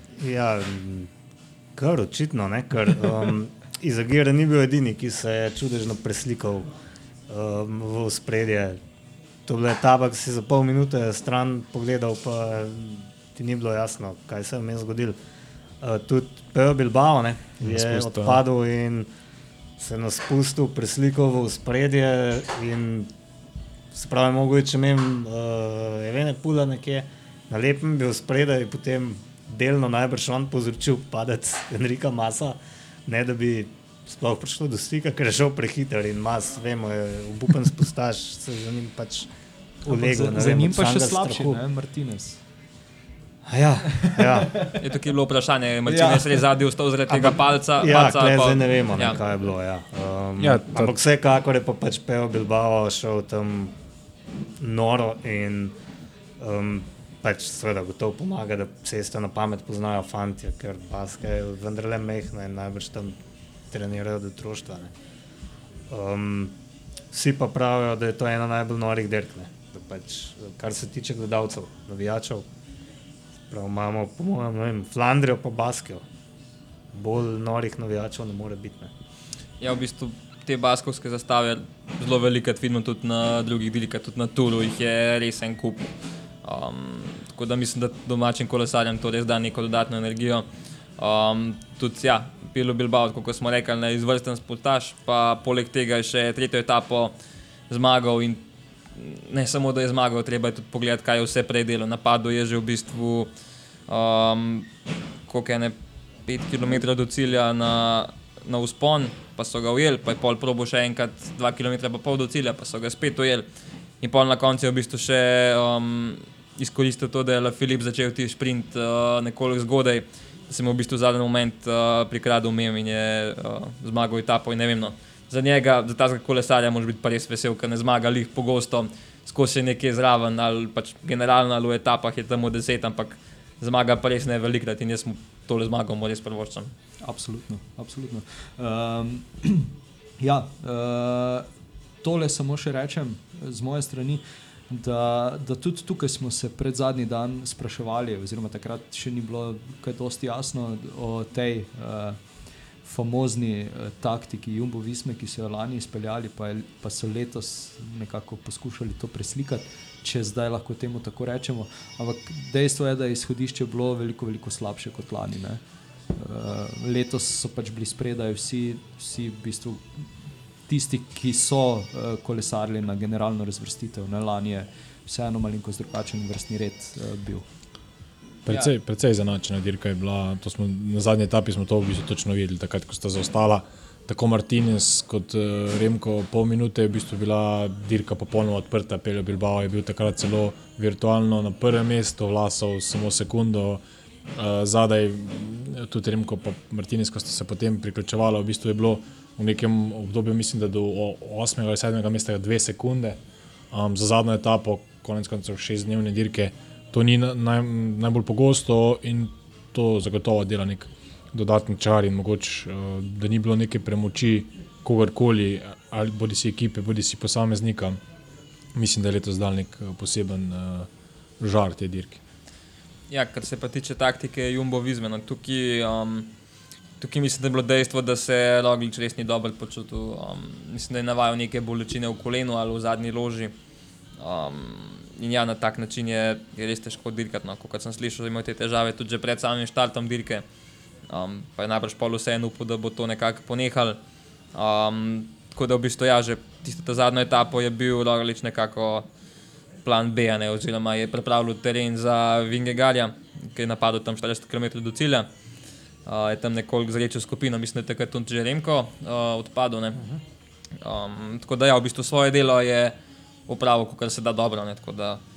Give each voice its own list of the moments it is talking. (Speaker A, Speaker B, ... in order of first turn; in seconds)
Speaker A: 0.2-1.1, 1.8-6.7, 7.3-8.8, 9.5-15.2, 15.8-19.1, 19.8-23.1, 23.9-39.3, 39.9-41.6, 43.5-44.6, 47.1-53.8, 54.6-55.8, 56.4-63.2, 63.7-64.9, 65.9-66.6, 67.1-72.5, 73.5-76.0, 76.9-78.9
Speaker B: 17.6-18.4, 50.4-51.0, 178.5-193.8, 194.3-203.2, 203.7-218.0, 218.7-220.9, 221.4-222.2
Speaker C: 39.9-42.4, 44.0-44.8, 45.9-46.4, 137.0-141.5, 142.0-152.2, 152.8-165.6, 166.1-170.1, 170.7-177.4
Speaker D: 44.8-49.2, 79.6-85.9, 86.4-90.5, 91.0-97.1, 97.7-98.4, 99.0-103.3, 103.9-104.7, 105.3-113.5, 114.0-136.7, 223.1-226.3, 227.0-233.5, 234.2-240.4, 241.1-244.0, 244.5-249.1, 249.8-255.3, 256.1-260.0, 260.8-262.9, 263.5-265.2